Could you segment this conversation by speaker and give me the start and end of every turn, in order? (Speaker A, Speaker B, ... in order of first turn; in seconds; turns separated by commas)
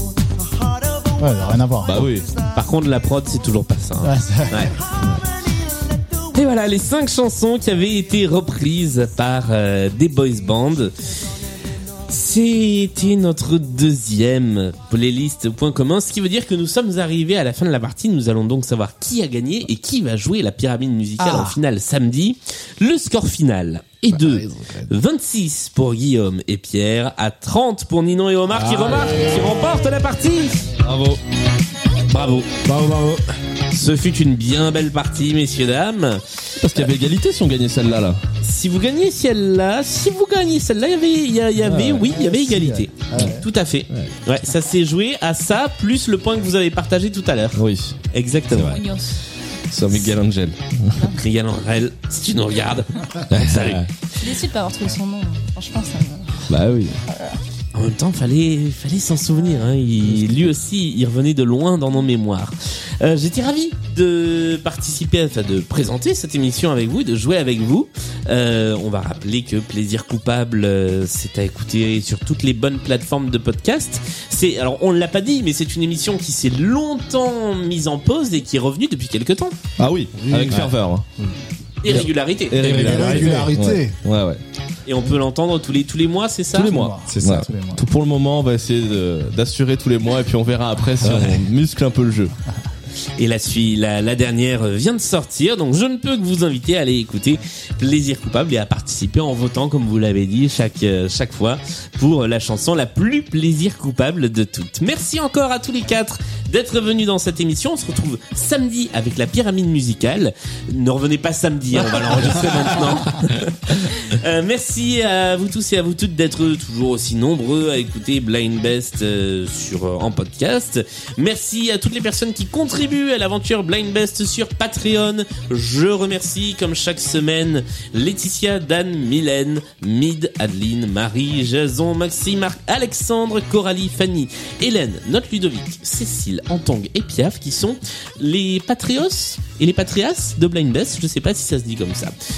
Speaker A: 1.2-2.1, Speaker B: 1.8-2.3, Speaker C: 2.6-4.7, Speaker A: 4.0-4.8, Speaker C: 6.3-10.9, Speaker C: 12.1-30.7, Speaker D: 24.3-24.8, Speaker D: 28.6-29.5, Speaker B: 30.8-31.2, Speaker C: 32.0-32.5, Speaker D: 32.6-33.2, Speaker C: 33.7-36.2, Speaker B: 36.6-38.2, Speaker C: 38.4-48.8, Speaker B: 41.6-42.1, Speaker A: 41.9-43.5, Speaker B: 47.5-48.0, Speaker E: 48.5-49.2, Speaker B: 49.7-51.1, Speaker C: 51.2-53.9, Speaker B: 53.3-53.8, Speaker D: 53.4-53.7, Speaker E: 54.2-56.3, Speaker B: 56.5-57.0, Speaker E: 57.1-57.4, Speaker C: 57.7-79.6, Speaker B: 79.8-81.1, Speaker A: 80.2-81.3, Speaker C: 81.8-82.7, Speaker B: 81.8-84.4, Speaker D: 82.6-83.5, Speaker A: 82.6-84.0, Speaker C: 84.9-86.8, Speaker B: 86.5-92.3, Speaker A: 86.6-87.8, Speaker D: 87.1-87.4, Speaker D: 91.0-91.4, Speaker C: 93.2-142.1